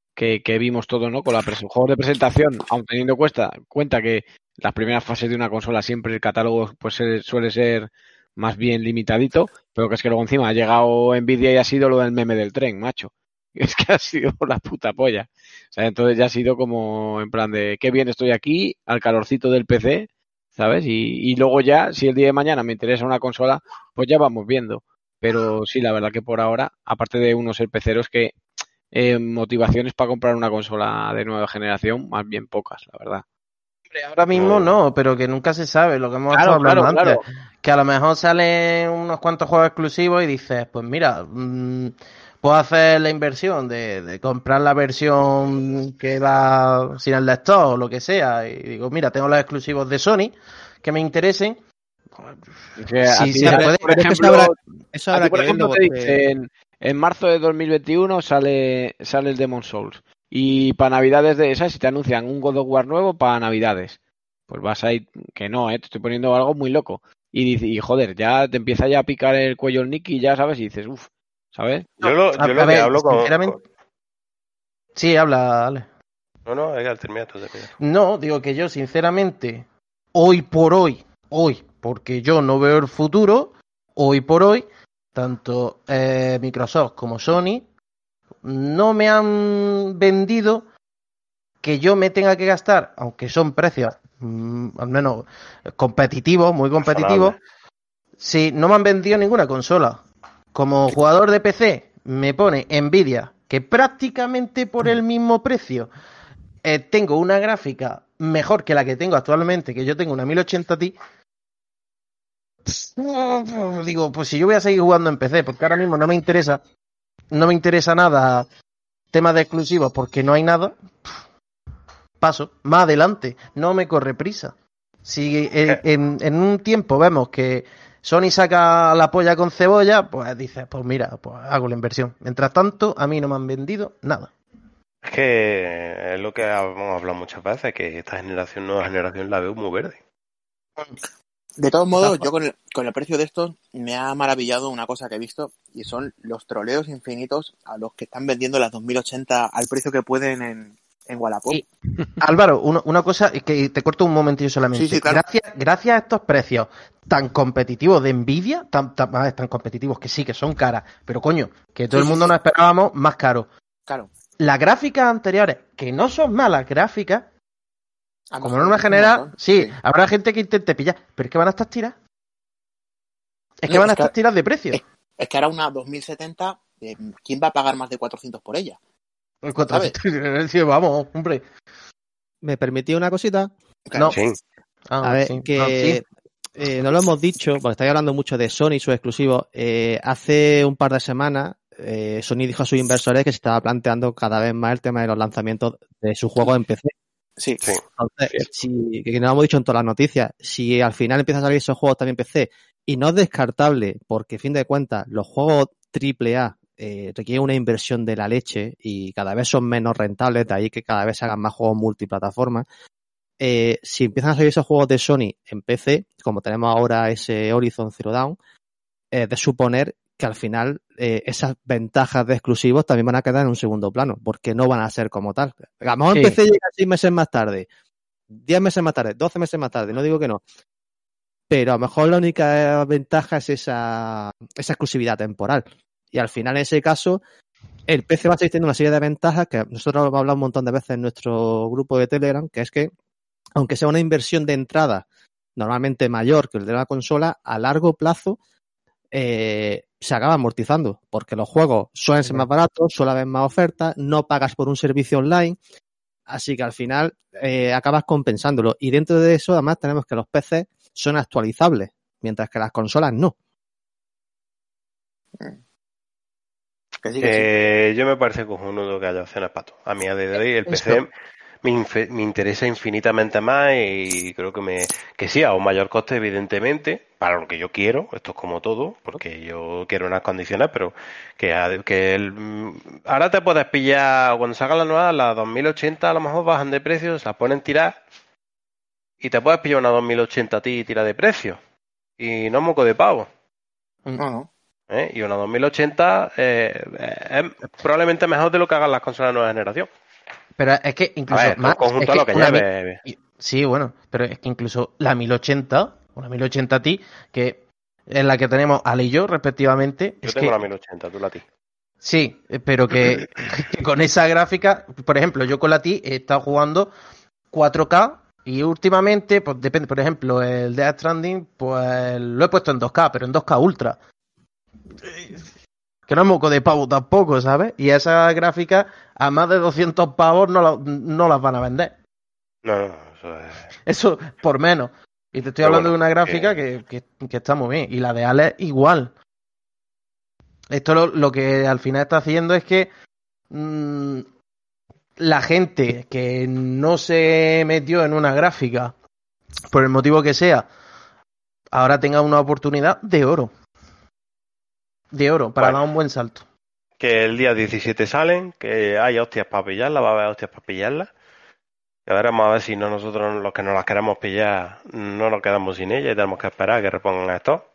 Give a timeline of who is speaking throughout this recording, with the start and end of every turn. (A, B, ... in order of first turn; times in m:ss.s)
0:00.2-0:28.4 A
0:28.9-0:33.2 A
0:33.9-0:51.6 B
0:34.3-0:34.8 C
0:36.3-0:37.2 A
0:52.2-0:52.4 B
0:52.8-0:54.6 A
0:53.0-0:54.0 B
0:53.4-0:56.2 D
0:55.1-1:04.0 A
1:04.5-1:11.9 A
1:12.0-1:13.6 B
1:12.0-1:13.6 C
1:15.0-1:15.9 B
1:16.5-1:17.7 C
1:17.8-1:27.7 B
1:28.4-1:30.7 B
1:31.6-1:37.4 B
1:36.9-1:37.4 C
1:38.2-1:45.9 B
1:46.6-1:51.0 B
1:52.7-1:56.6 B
1:57.3-1:58.5 B
1:59.1-2:00.8 B
2:02.2-2:14.3 B
2:15.0-2:20.0 C
2:21.6-2:31.6 E
2:22.0-2:22.3 B
2:32.2-2:43.5 B
2:34.7-2:35.2 E
2:41.9-2:42.4 E
2:44.4-2:47.3 B
2:48.3-2:49.7 E
2:48.4-2:52.0 B
2:53.6-2:54.8 B
2:53.7-2:54.1 E
2:54.7-2:58.8 E
2:59.4-3:01.4 B
2:59.7-3:00.0 E
3:02.4-3:03.5 D
3:03.9-3:04.2 E
3:04.1-3:04.4 C
3:04.9-3:06.0 B
3:05.0-3:06.0 D
3:06.6-3:16.9 D
3:17.4-3:17.7 E
3:18.0-3:32.6 D
3:33.4-3:38.4 D
3:39.1-3:47.7 D
3:46.1-3:46.4 B
3:48.3-3:50.4 D
3:51.5-3:57.2 D
3:57.9-4:02.9 D
4:03.6-4:08.4 D
4:09.1-4:15.6 D
4:16.3-4:23.4 D
4:27.0-4:27.5 E
4:27.2-4:31.1 C
4:30.7-4:31.0 E
4:31.6-4:48.0 C
4:49.2-4:51.6 C
4:52.2-4:53.3 C
4:54.2-4:54.5 E
4:54.9-4:59.9 C
5:00.6-5:10.6 B
5:01.3-5:03.0 C
5:10.2-5:11.4 C
5:12.0-5:16.9 B
5:17.5-5:24.0 B
5:25.0-5:25.4 B
5:26.1-5:32.0 B
5:32.6-5:33.7 C
5:33.8-5:39.1 B
5:35.6-5:36.6 C
5:40.7-5:42.9 B
5:43.5-5:44.3 B
5:45.2-5:49.0 B
5:49.7-5:50.7 B
5:51.7-5:53.5 B
5:55.1-5:56.4 B
5:57.0-6:01.1 C
6:02.1-6:07.7 C